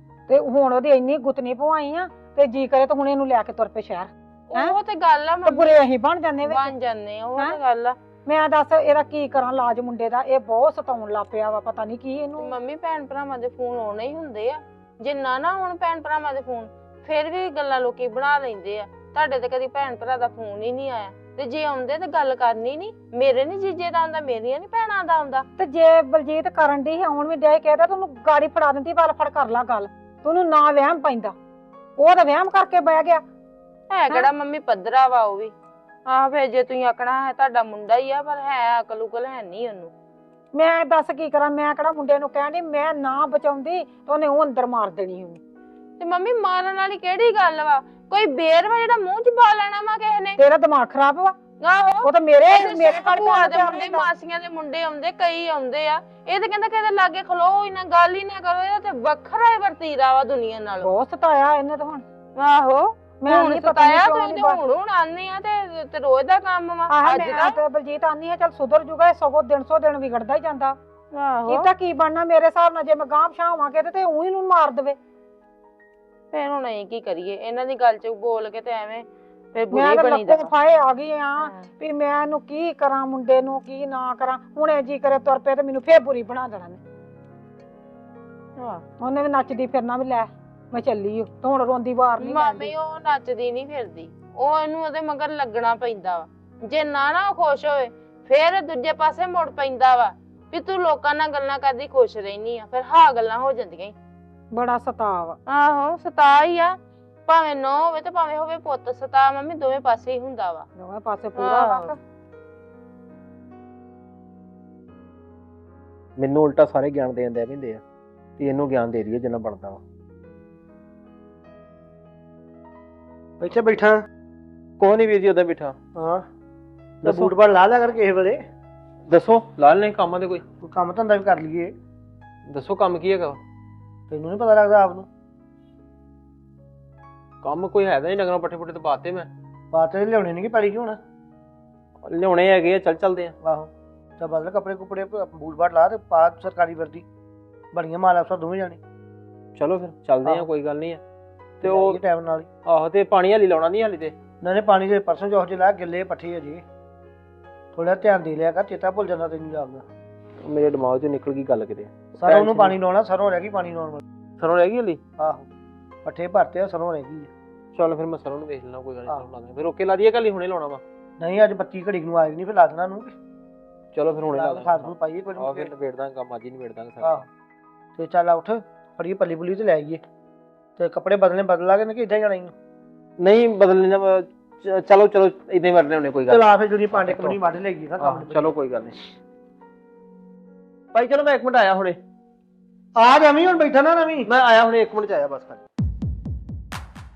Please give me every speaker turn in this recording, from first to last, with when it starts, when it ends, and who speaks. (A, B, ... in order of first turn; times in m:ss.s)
0:00.3-0:04.7 A
0:04.5-0:05.8 B
0:05.4-0:06.7 A
0:06.4-0:08.0 B
0:08.2-0:12.5 A
0:12.4-0:25.5 B
0:25.6-0:31.3 A
0:32.0-0:33.2 A
0:33.9-0:35.5 B
0:36.1-0:39.9 B
0:40.5-0:45.4 A
0:46.0-0:50.4 B
0:50.4-0:51.4 A
0:51.6-1:00.9 B
0:52.0-0:54.1 A
1:00.8-1:02.0 A
1:02.4-1:07.6 B
1:03.2-1:04.6 A
1:06.9-1:10.8 A
1:11.1-1:11.7 B
1:11.5-1:15.0 A
1:16.3-1:20.5 B
1:19.7-1:26.8 A
1:21.4-1:21.7 B
1:28.6-1:28.8 B
1:29.0-1:32.7 A
1:32.2-1:43.9 B
1:44.5-1:45.4 A
1:45.5-1:46.7 B
1:47.3-1:50.7 B
1:50.8-1:52.0 A
1:51.4-1:51.9 B
1:56.2-1:57.8 C
1:58.4-1:59.8 C
2:03.4-2:04.0 D
2:04.8-2:05.8 C
2:05.9-2:06.2 D
2:07.0-2:07.3 C
2:07.0-2:08.4 D
2:09.1-2:10.4 C
2:10.6-2:11.7 D
2:12.5-2:13.4 C
2:14.1-2:15.1 D
2:17.4-2:19.3 C
2:19.7-2:21.0 D
2:22.0-2:23.3 C
2:23.4-2:27.0 D
2:27.7-2:28.8 D
2:29.6-2:31.0 C
2:31.6-2:32.0 C
2:31.6-2:32.5 D
2:32.6-2:34.2 C
2:34.4-2:36.6 D
2:37.7-2:39.8 D
2:40.4-2:42.8 C
2:42.2-2:44.0 D
2:44.4-2:45.0 C
2:45.2-2:45.5 D
2:46.0-2:47.3 D
2:47.7-2:50.8 C
2:51.2-2:53.1 D
2:53.9-2:57.2 C
2:54.3-2:55.7 D
2:58.0-3:00.0 D
3:00.8-3:02.5 D
3:03.2-3:07.4 C
3:06.3-3:08.5 D
3:08.0-3:09.0 C
3:10.9-3:12.0 C
3:13.0-3:14.3 D
3:14.3-3:15.6 C